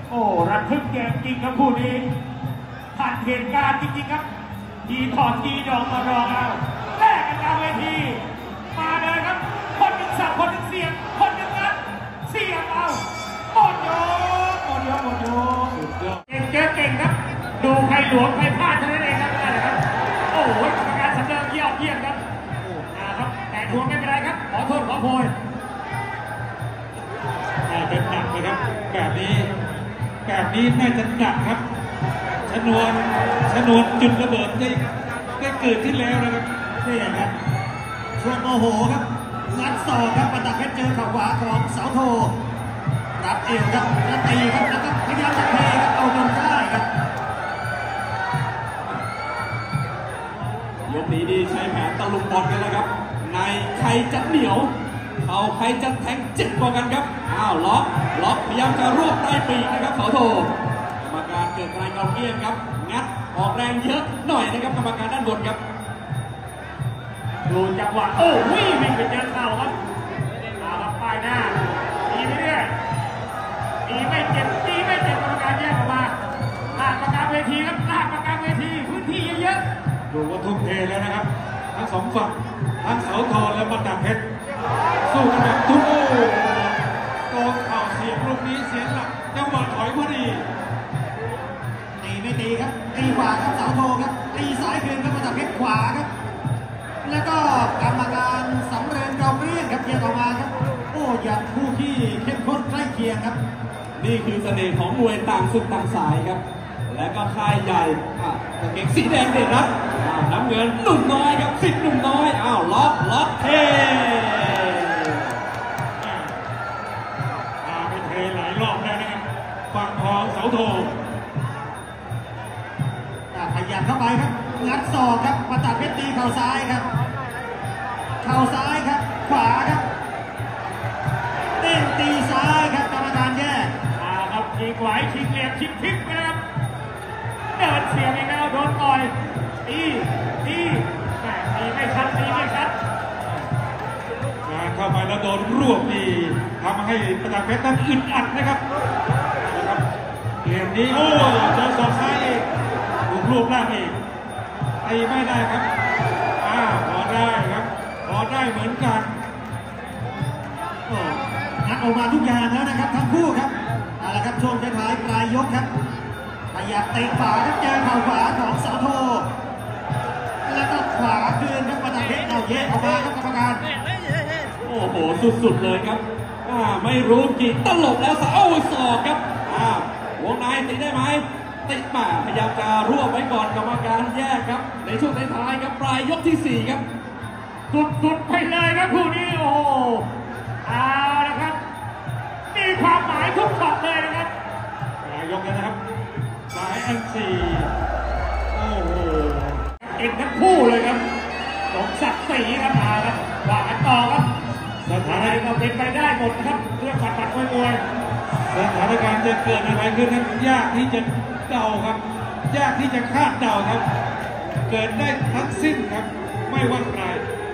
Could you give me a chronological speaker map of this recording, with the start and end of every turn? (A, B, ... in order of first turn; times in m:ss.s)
0:00.1-0:02.1 A
0:02.9-0:04.2 A
0:04.8-0:15.7 A
0:15.7-0:16.2 B
0:16.3-0:22.2 A
0:22.9-0:25.3 A
0:27.6-0:29.5 B
0:30.2-0:31.6 B
0:32.4-0:34.8 B
0:35.4-0:36.5 B
0:36.8-0:37.3 C
0:38.2-0:42.3 C
0:43.2-0:46.9 C
0:50.9-1:05.6 D
1:07.4-1:09.7 A
1:10.6-1:12.7 A
1:13.8-1:16.1 A
1:16.7-1:19.6 A
1:20.1-1:24.2 B
1:25.1-1:26.8 B
1:27.3-1:30.5 B
1:32.0-1:36.1 C
1:37.0-1:43.4 C
1:44.0-1:55.2 D
1:56.0-1:56.4 B
1:57.6-2:00.9 B
2:03.3-2:06.9 C
2:08.2-2:09.8 C
2:11.6-2:13.7 C
2:14.0-2:16.4 A
2:17.5-2:19.1 A
2:19.6-2:22.7 A
2:24.4-2:28.6 B
2:29.4-2:29.8 B
2:30.4-2:32.4 B
2:33.0-2:34.0 B
2:34.8-2:35.6 B
2:36.4-2:39.1 B
2:40.8-2:45.7 C
2:46.5-2:49.3 C
2:50.4-2:53.6 C
2:54.6-3:06.8 D
3:07.7-3:10.1 A
3:10.6-3:11.6 A
3:12.5-3:14.3 A
3:15.0-3:15.8 B
3:16.5-3:17.7 B
3:18.5-3:19.6 B
3:19.8-3:21.0 A
3:21.7-3:24.3 A
3:24.8-3:25.4 B
3:25.0-3:27.8 A
3:28.5-3:33.8 B
3:34.7-3:37.2 B